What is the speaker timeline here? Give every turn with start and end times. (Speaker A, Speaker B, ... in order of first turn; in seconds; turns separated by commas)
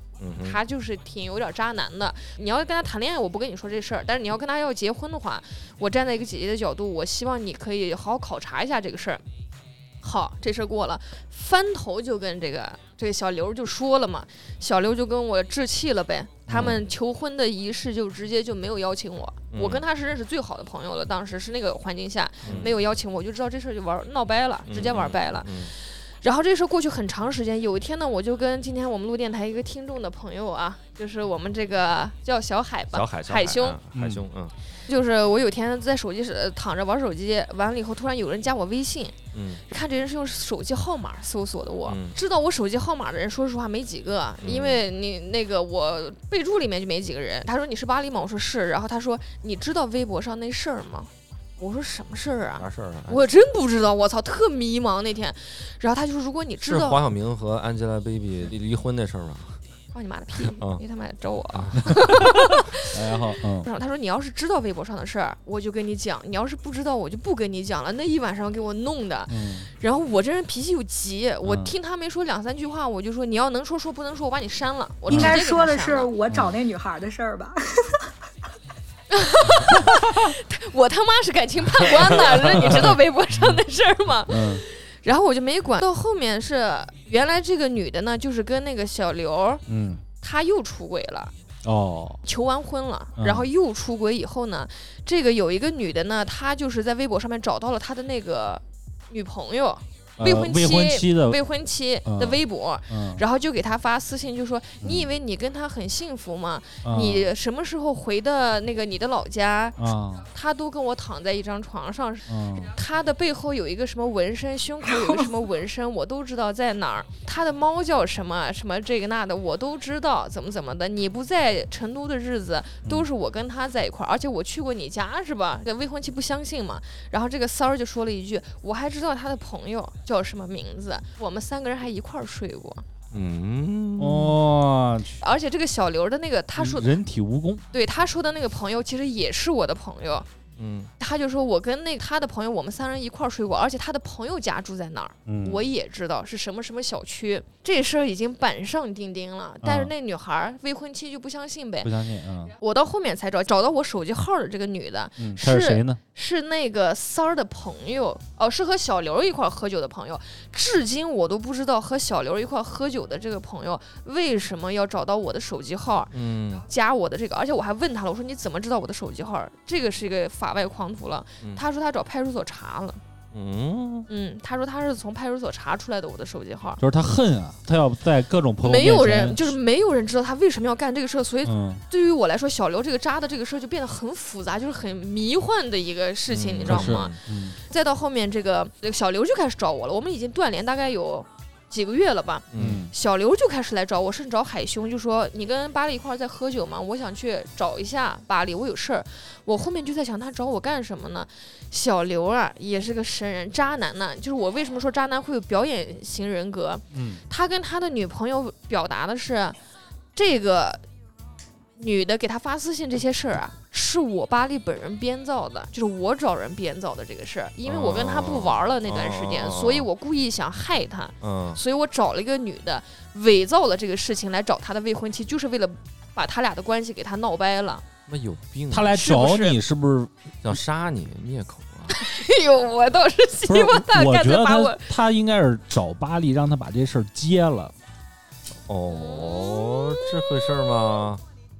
Speaker A: 0.2-0.6, Speaker B: 0.4-9.2, Speaker B: 10.0-33.8, Speaker A: 16.5-16.8, Speaker A: 19.5-19.9, Speaker A: 22.4-22.7, Speaker A: 24.7-25.7, Speaker A: 32.9-34.5, Speaker C: 33.9-34.2, Speaker B: 34.9-57.0, Speaker A: 39.3-39.6, Speaker A: 41.9-42.1, Speaker A: 44.4-44.8, Speaker A: 52.6-53.2, Speaker A: 56.7-59.6, Speaker B: 59.9-76.1, Speaker A: 61.5-62.3, Speaker C: 62.9-63.7, Speaker C: 69.3-69.7, Speaker C: 71.4-71.7, Speaker D: 75.1-78.1, Speaker C: 75.1-75.4, Speaker B: 79.1-89.6, Speaker C: 84.3-84.7, Speaker C: 89.7-90.0, Speaker B: 90.2-91.3, Speaker C: 91.6-92.2, Speaker B: 92.2-132.8, Speaker C: 93.2-93.5, Speaker C: 100.2-101.4, Speaker C: 102.0-103.2, Speaker C: 104.8-105.1, Speaker C: 106.8-107.3, Speaker C: 109.8-110.3, Speaker C: 112.3-112.7, Speaker A: 133.1-134.4, Speaker C: 134.0-135.2, Speaker B: 135.2-136.9, Speaker C: 136.6-137.6, Speaker B: 137.7-140.3, Speaker A: 140.6-140.9, Speaker B: 141.0-151.9, Speaker C: 145.3-145.7, Speaker C: 149.6-149.9, Speaker C: 151.8-152.6, Speaker B: 152.6-166.1, Speaker C: 155.2-156.0, Speaker A: 166.1-166.7, Speaker B: 166.7-173.0, Speaker A: 173.3-174.1, Speaker B: 174.1-176.8, Speaker C: 176.8-179.6, Speaker B: 178.6-209.6, Speaker C: 181.4-181.8, Speaker A: 186.3-187.1, Speaker C: 186.7-187.6, Speaker A: 192.5-192.8, Speaker C: 192.6-192.9, Speaker C: 206.9-207.2, Speaker B: 210.2-210.8, Speaker B: 211.8-227.9, Speaker A: 217.7-219.9, Speaker A: 221.2-221.6, Speaker A: 228.1-228.9, Speaker C: 228.7-230.5, Speaker B: 228.9-229.6, Speaker A: 230.4-231.9, Speaker B: 231.9-234.9, Speaker C: 233.5-237.7, Speaker A: 238.7-241.2, Speaker B: 238.9-241.1